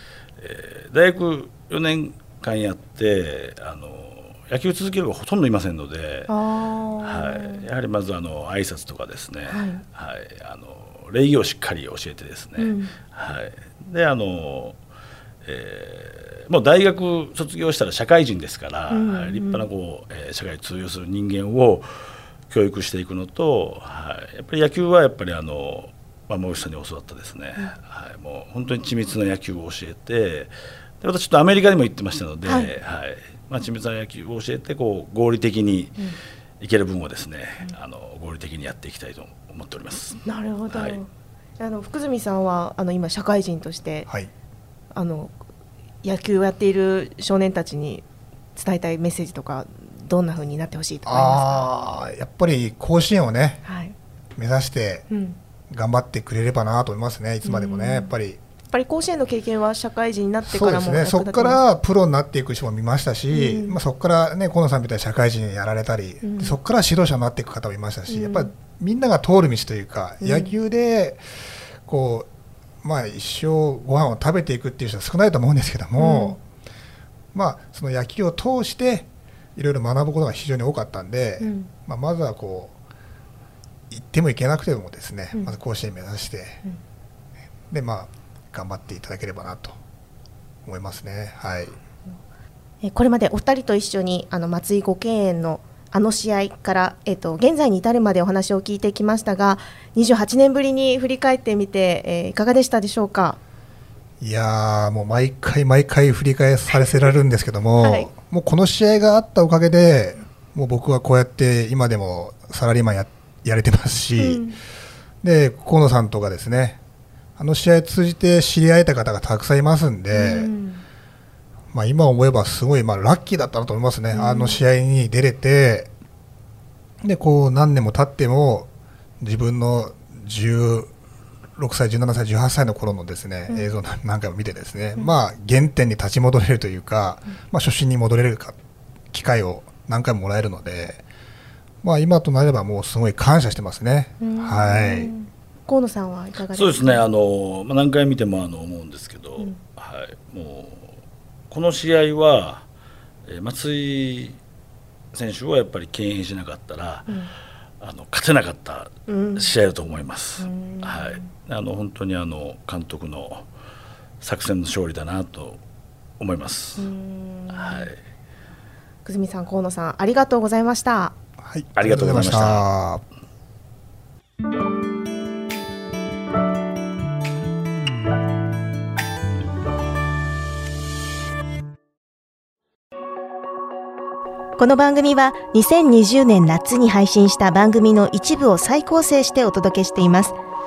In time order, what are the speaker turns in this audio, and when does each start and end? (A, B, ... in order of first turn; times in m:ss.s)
0:00.4-0:06.3 A
0:06.3-0:07.6 B
0:07.0-0:14.8 A
0:09.5-0:09.8 B
0:12.6-0:12.9 B
0:15.4-0:21.9 A
0:18.9-0:19.7 B
0:22.5-0:36.0 A
0:32.4-0:32.7 B
0:36.6-0:41.0 A
0:40.2-0:44.1 B
0:44.9-0:45.3 B
0:46.0-0:48.0 B
0:48.6-0:51.6 B
0:51.1-0:53.6 C
0:53.6-0:53.9 B
0:54.4-0:55.1 C
0:55.1-0:55.4 B
0:55.7-0:58.4 C
0:57.4-0:58.1 B
0:58.7-1:01.6 B
1:00.5-1:12.3 C
1:03.3-1:03.8 B
1:06.2-1:06.6 B
1:08.1-1:08.5 B
1:10.2-1:10.5 B
1:12.8-1:16.4 C
1:16.0-1:16.4 B
1:17.3-1:22.7 C
1:21.4-1:21.7 B
1:23.9-1:26.6 C
1:27.7-1:29.8 C
1:30.6-1:31.7 C
1:32.8-1:43.4 B
1:44.2-1:54.4 C
1:47.8-1:48.1 B
1:54.2-1:54.6 B
1:55.2-1:56.8 C
1:57.4-2:00.5 C
2:00.1-2:00.8 B
2:01.7-2:05.9 C
2:04.1-2:04.6 B
2:07.0-2:08.7 C
2:09.2-2:10.9 C
2:11.6-2:18.6 C
2:19.1-2:21.0 C
2:21.8-2:25.1 C
2:24.2-2:27.0 B
2:26.5-2:31.0 A
2:31.5-2:32.6 A
2:33.3-2:34.4 A
2:35.1-2:37.2 A
2:37.8-2:43.4 A
2:39.1-2:39.5 B
2:40.4-2:41.3 B
2:44.2-2:45.6 A
2:46.2-2:46.9 A
2:46.8-2:47.9 B
2:47.5-2:48.0 A
2:49.0-2:51.2 B
2:51.4-2:53.0 C
2:51.8-2:52.6 A
3:04.6-3:10.4 B